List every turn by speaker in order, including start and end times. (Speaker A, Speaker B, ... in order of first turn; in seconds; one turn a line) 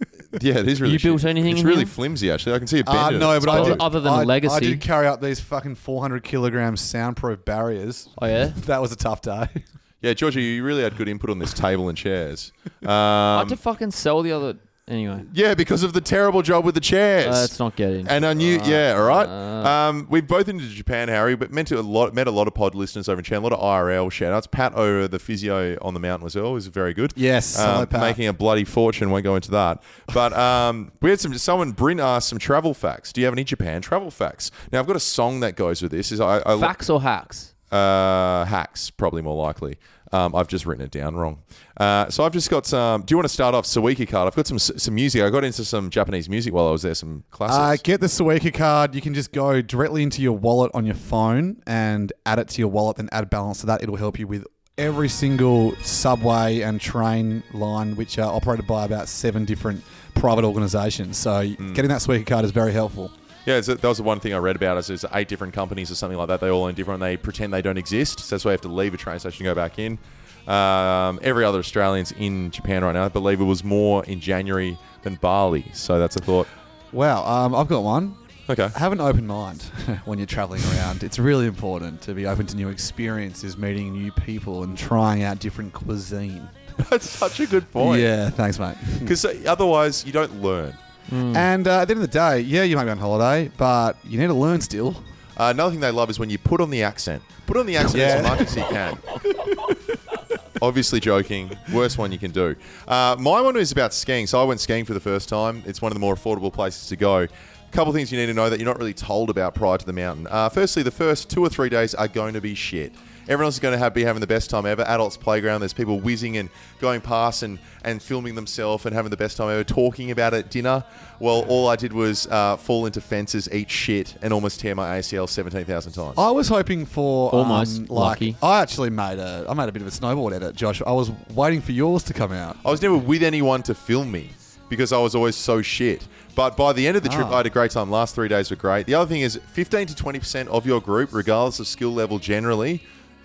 Speaker A: 0.3-3.9
Speaker B: 0.8-1.9
Speaker C: 2.8-9.6
Speaker B: 3.5-4.8
Speaker B: 8.2-8.6
Speaker A: 10.0-13.6
Speaker B: 13.3-15.3
Speaker A: 15.3-17.5
Speaker B: 17.2-19.7
Speaker A: 18.1-36.7
Speaker C: 27.1-28.2
Speaker B: 36.6-37.5
Speaker A: 37.7-47.8
Speaker C: 47.5-63.1
Speaker A: 61.6-61.9
Speaker A: 63.5-76.5
Speaker C: 76.9-78.2
Speaker A: 78.5-78.8
Speaker C: 78.7-86.5
Speaker A: 86.8-88.1
Speaker C: 87.8-89.2
Speaker A: 89.0-90.8
Speaker B: 91.1-91.5
Speaker C: 91.3-95.1
Speaker A: 95.4-99.0
Speaker C: 97.8-98.7
Speaker A: 100.6-126.2
Speaker C: 126.2-132.6
Speaker B: 127.3-128.4
Speaker A: 132.6-142.8
Speaker C: 137.0-137.4